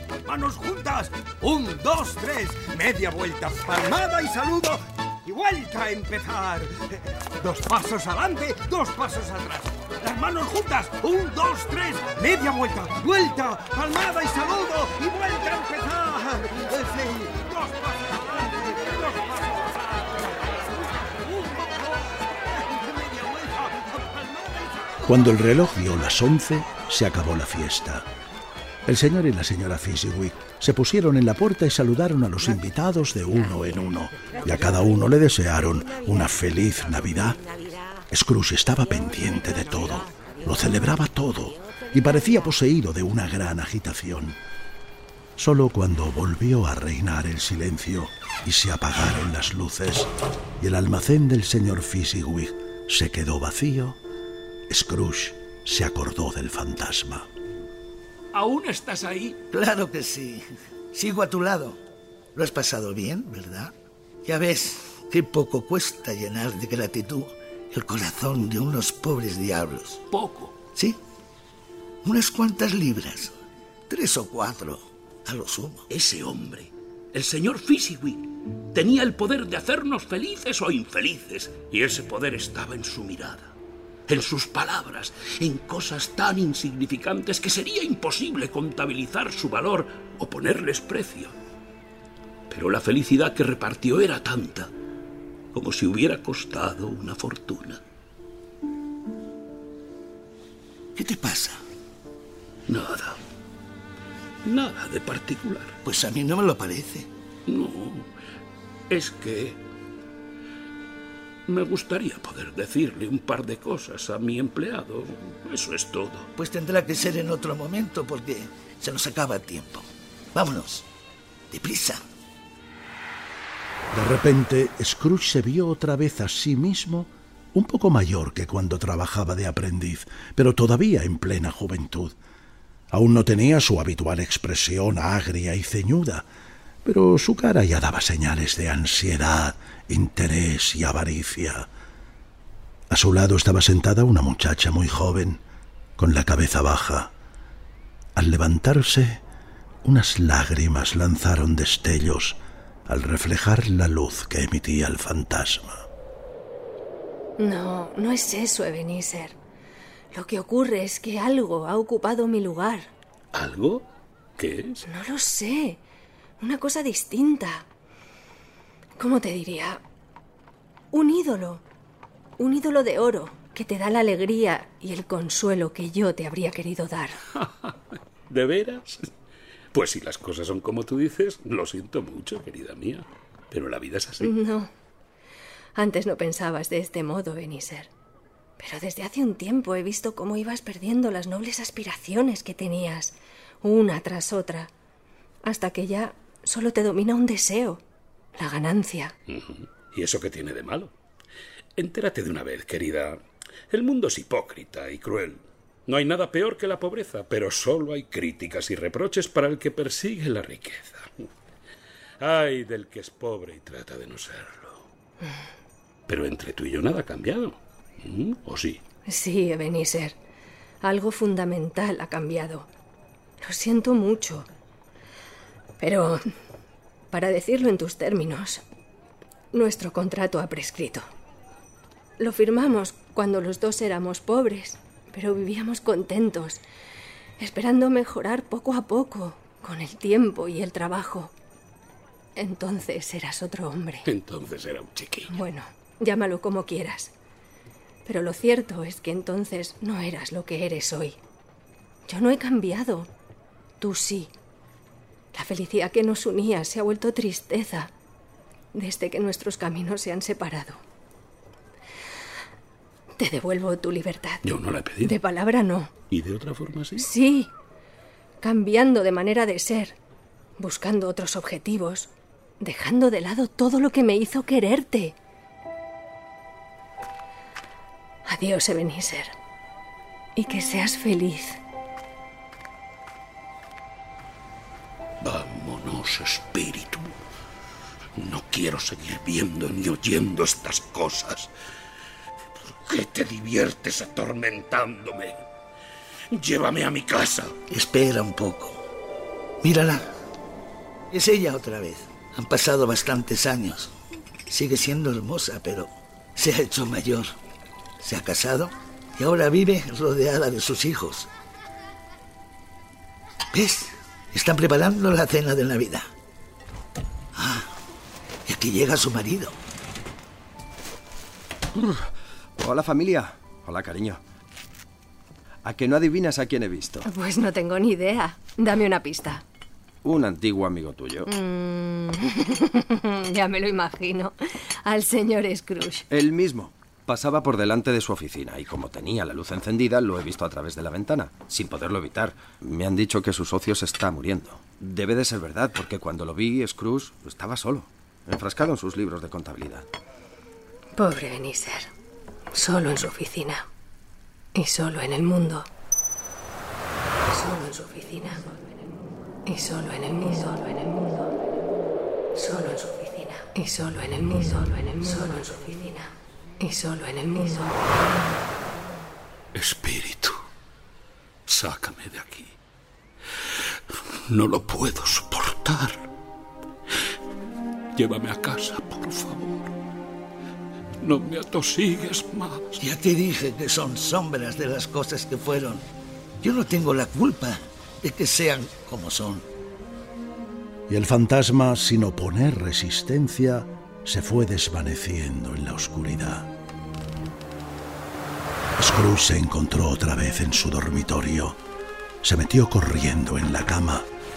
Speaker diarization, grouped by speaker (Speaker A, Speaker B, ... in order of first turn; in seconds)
Speaker A: 0.2-25.1
Speaker B: 25.1-28.1, 28.9-37.4, 38.1-44.4, 45.4-50.1, 50.6-54.0, 54.7-57.3, 123.9-132.2, 132.9-136.3, 136.8-141.7, 142.9-145.4, 146.0-147.1, 148.2-149.2, 149.8-155.8, 390.9-396.5, 398.8-401.6, 402.2-404.1
Speaker C: 58.3-59.4, 70.1-70.5, 75.9-83.5, 84.1-91.3, 92.5-94.7, 95.5-97.8, 102.7-103.2, 104.5-105.8, 107.5-108.1, 108.9-109.6, 111.5-116.3, 163.3-163.8, 164.4-164.8, 177.4-177.7, 178.3-179.1, 179.7-184.3, 199.3-200.9, 201.8-211.3, 212.2-214.9, 216.1-218.8, 244.1-245.3, 264.4-265.2, 266.1-267.1, 285.2-287.2, 288.2-291.5, 292.6-295.4, 296.3-297.6, 369.6-370.4, 371.5-372.6, 373.9-376.1, 377.9-379.7, 381.0-382.8
Speaker D: 59.5-61.8, 62.4-70.0, 72.0-73.4, 73.9-75.8, 101.0-101.6, 105.8-107.1, 116.3-120.9, 121.5-122.0, 297.7-298.8, 299.6-300.1, 301.1-303.9, 304.5-307.4, 308.0-311.3, 313.5-316.1, 317.4-317.7, 318.5-319.6, 382.8-385.9, 386.4-389.5
Speaker E: 157.4-159.4, 160.1-162.9, 164.8-165.8, 166.4-167.7, 169.0-169.8, 170.9-171.6, 172.4-177.2, 184.2-184.7, 185.8-187.9, 188.6-194.7, 195.4-197.8, 198.4-199.2, 219.1-220.2, 220.8-222.7, 223.4-224.5, 225.8-226.2, 227.1-228.6, 229.5-231.1, 232.2-236.6, 237.4-241.3, 242.4-244.1, 245.3-247.1, 248.1-251.2, 252.1-253.1, 253.8-254.3, 255.3-257.9, 258.7-260.8, 263.2-264.5, 265.0-265.9, 267.0-267.5, 268.4-270.0, 270.6-275.2, 278.3-279.3, 280.4-281.6, 327.1-329.4, 331.3-336.1, 351.0-351.9, 352.5-353.7, 354.6-355.7, 357.3-358.6, 359.5-361.3, 362.4-367.8
Speaker F: 321.8-322.0, 322.6-324.2, 325.6-327.0, 330.0-331.3, 336.1-349.9